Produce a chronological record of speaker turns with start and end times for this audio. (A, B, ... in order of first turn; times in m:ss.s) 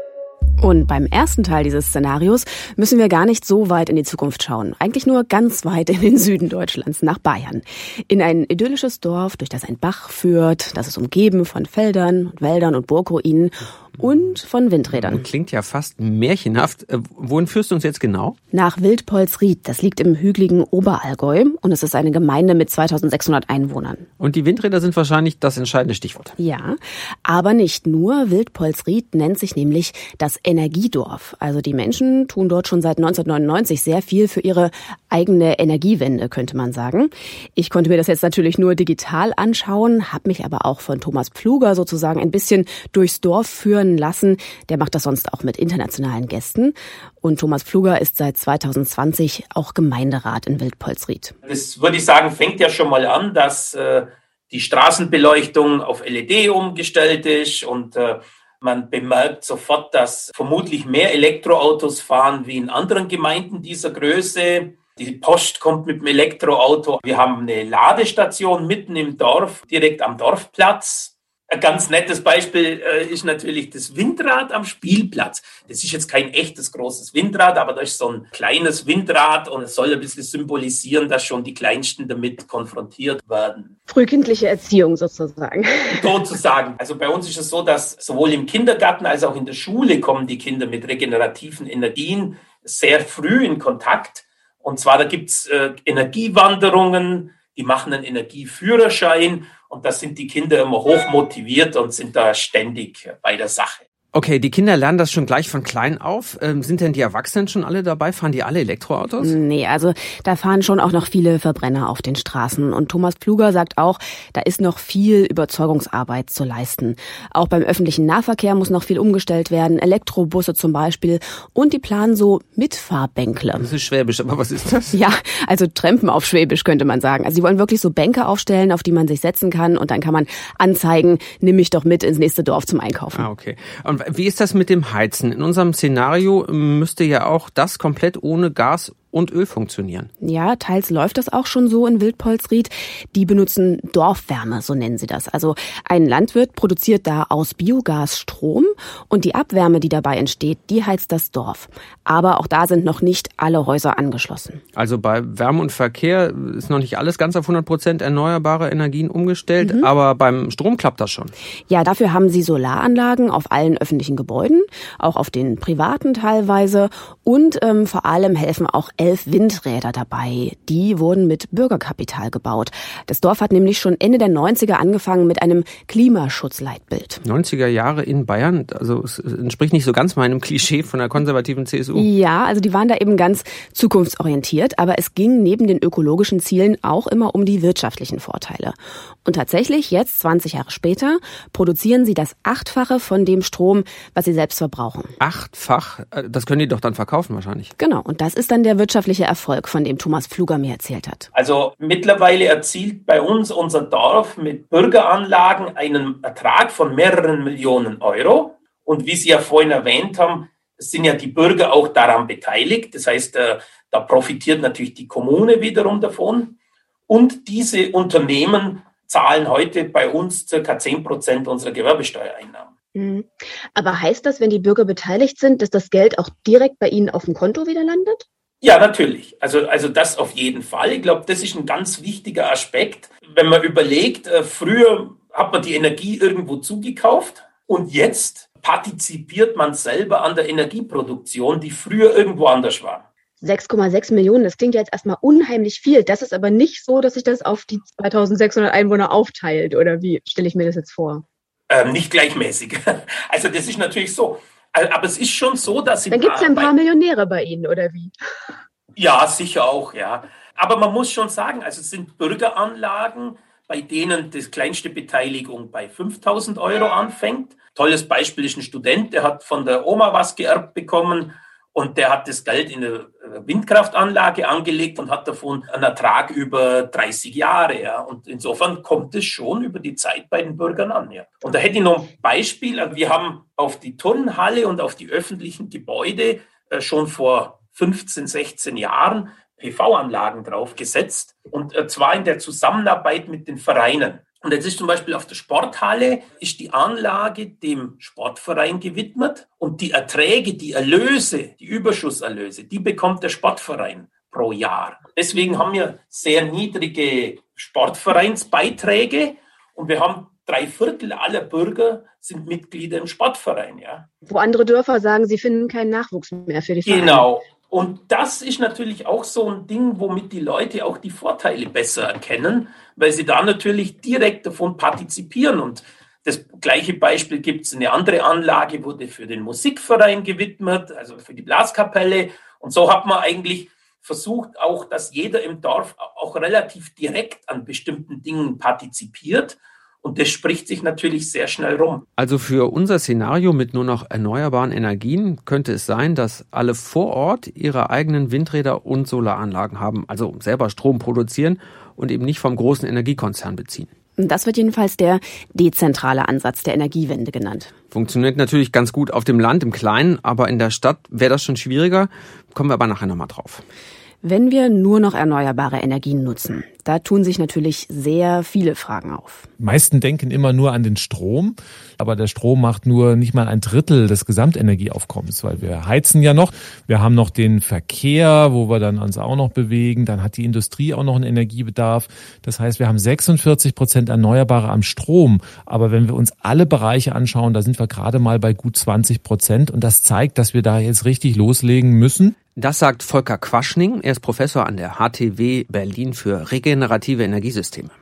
0:00.6-0:15.2 A
0:15.0-0:18.4 B
0:18.5-0:24.1 A
0:24.2-0:26.3 B
0:26.4-0:51.3 A
0:51.4-1:23.7 C
1:23.9-1:26.2 A
1:26.0-1:43.8 C
1:44.1-1:49.4 B
1:49.2-2:03.7 A
2:03.6-2:05.0 B
2:04.9-2:13.3 A
2:13.1-2:20.1 B
2:20.2-2:34.6 A
2:34.8-2:41.3 B
2:39.6-2:39.9 A
2:41.7-2:57.2 A
2:57.2-3:02.1 B
3:02.0-3:15.1 A
3:15.2-3:17.7 B
3:17.8-3:21.3 A
3:21.3-3:36.6 C
3:37.1-3:42.7 C
3:42.9-3:48.2 A
3:48.6-4:03.0 C
4:03.4-4:11.2 A
4:11.7-4:16.7 C
4:16.1-4:18.1 A
4:19.0-5:14.1 C
5:14.3-5:17.2 A
5:16.8-5:42.0 C
5:42.2-5:53.9 B
5:54.2-5:57.7 A
5:57.9-6:03.6 B
6:04.2-6:09.5 A
6:09.6-6:32.4 D
6:32.6-6:37.9 B